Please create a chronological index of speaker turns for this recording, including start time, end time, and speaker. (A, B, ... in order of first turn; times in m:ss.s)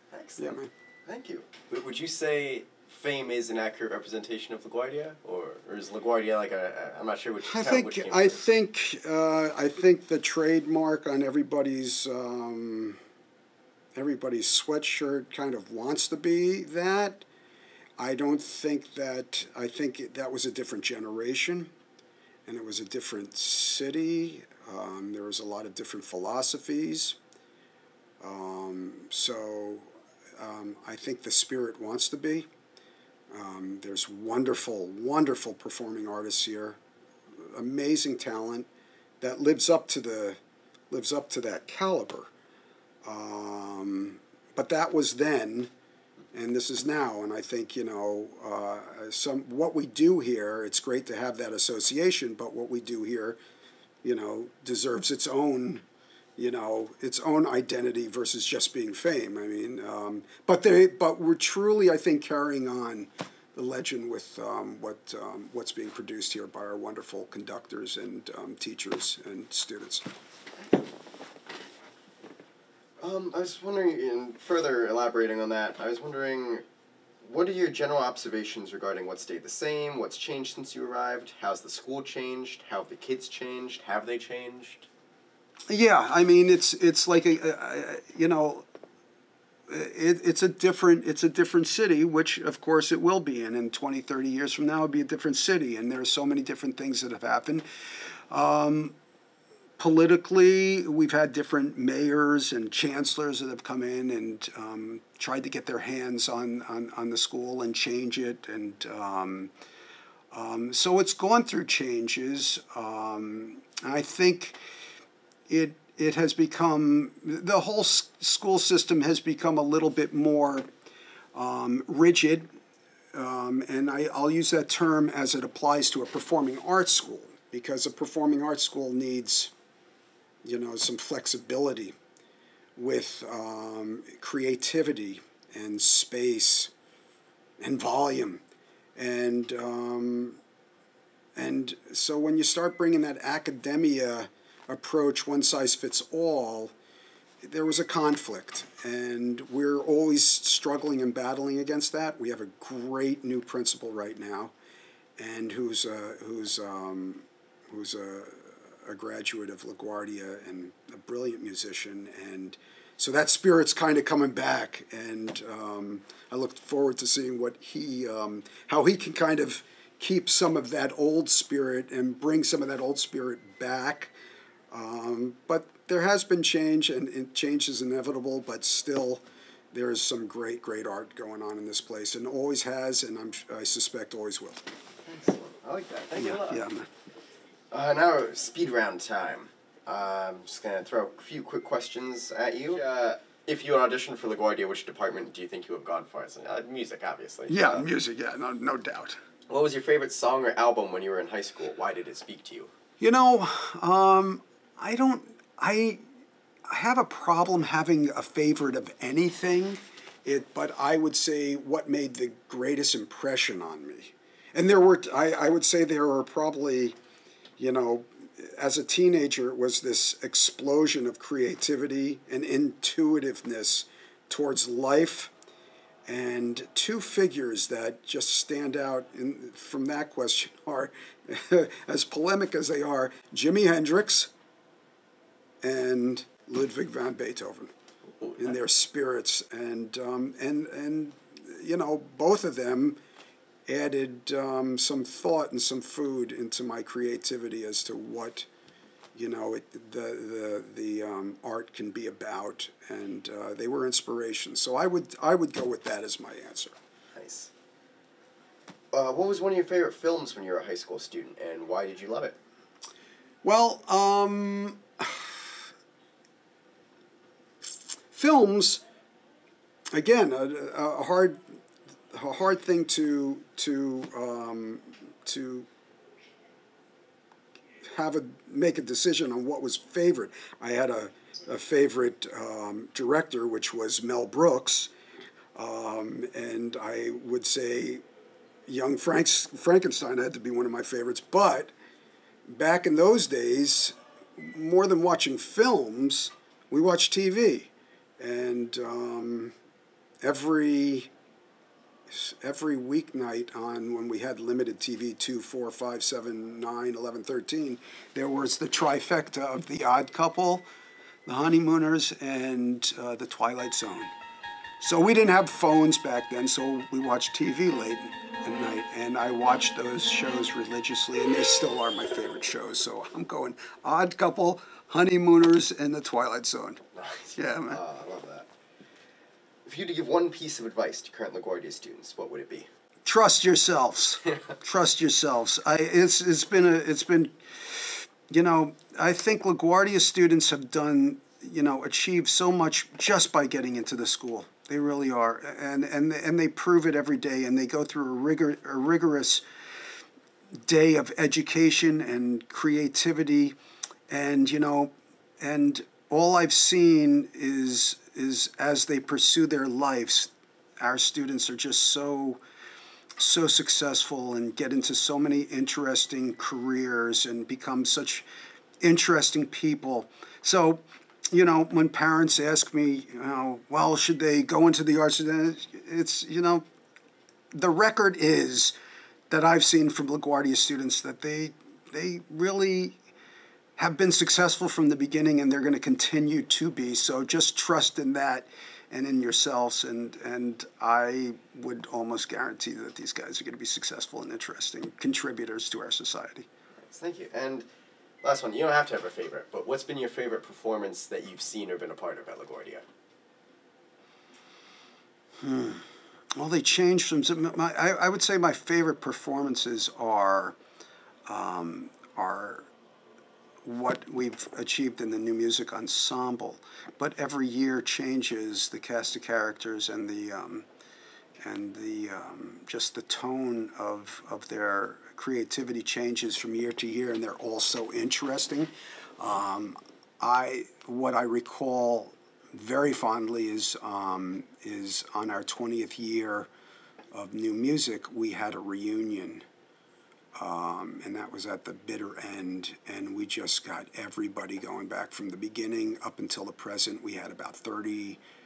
0:00.1-0:08.5 A
0:00.4-0:00.7 B
0:07.4-0:13.0 B
0:14.0-0:17.3 B
0:18.0-0:21.7 B
0:22.5-0:27.2 B
0:28.2-0:32.5 B
0:33.3-0:36.8 B
0:37.4-0:38.7 B
0:39.2-0:40.4 B
0:40.9-0:42.3 B
0:43.0-0:45.7 B
0:46.3-0:53.4 B
0:54.0-0:55.8 B
0:56.4-1:10.1 B
1:13.0-1:16.6 A
1:17.2-1:24.9 A
1:25.7-1:28.7 B
1:29.7-1:37.6 B
1:38.3-1:39.0 B
1:39.8-1:49.5 B
1:50.3-1:54.6 B
1:55.5-2:00.7 B
2:01.3-2:02.5 B
2:03.1-2:09.5 B
2:10.4-2:12.0 B
2:12.8-2:16.7 B
2:17.6-2:18.4 B
2:19.0-2:20.4 B
2:21.4-2:26.7 B
2:27.4-2:34.5 B
2:35.2-2:54.1 B
2:54.7-3:04.6 B
3:05.1-3:06.7 A
3:06.2-3:06.9 B
3:07.7-3:17.9 A
3:17.5-3:19.2 B
3:19.5-3:22.7 A
3:23.0-3:26.0 B
3:26.7-3:37.0 B
3:37.6-3:45.3 B
3:46.1-3:54.3 B
3:55.6-3:57.7 B
3:58.4-4:03.0 B
4:03.7-4:08.5 B
4:09.2-4:16.8 B
4:17.2-4:17.5 A
4:18.9-4:22.4 A
4:23.4-4:25.6 B
4:28.1-4:28.8 B
4:29.9-4:31.4 B
4:32.1-4:35.7 B
4:37.9-4:44.9 B
4:45.6-4:48.0 B
4:48.7-4:51.7 B
4:52.5-4:59.6 B
5:00.2-5:01.1 B
5:02.1-5:10.6 B
5:11.3-5:14.1 B
5:14.8-5:26.8 B
5:27.0-5:28.5 A
5:27.3-5:27.8 B
5:29.7-5:32.7 A
5:33.0-5:49.4 B
5:50.6-5:53.6 B
5:54.1-6:02.4 B
6:03.2-6:08.3 B
6:08.8-6:16.6 B
6:17.5-6:18.8 B
6:19.3-6:23.0 B
6:23.8-6:36.5 B
6:36.9-6:37.7 A
6:38.2-6:42.8 A
6:45.4-6:50.6 B
6:51.3-6:52.7 B
6:53.6-7:00.7 B
7:01.4-7:16.5 B
7:17.1-7:19.4 B
7:20.4-7:28.2 B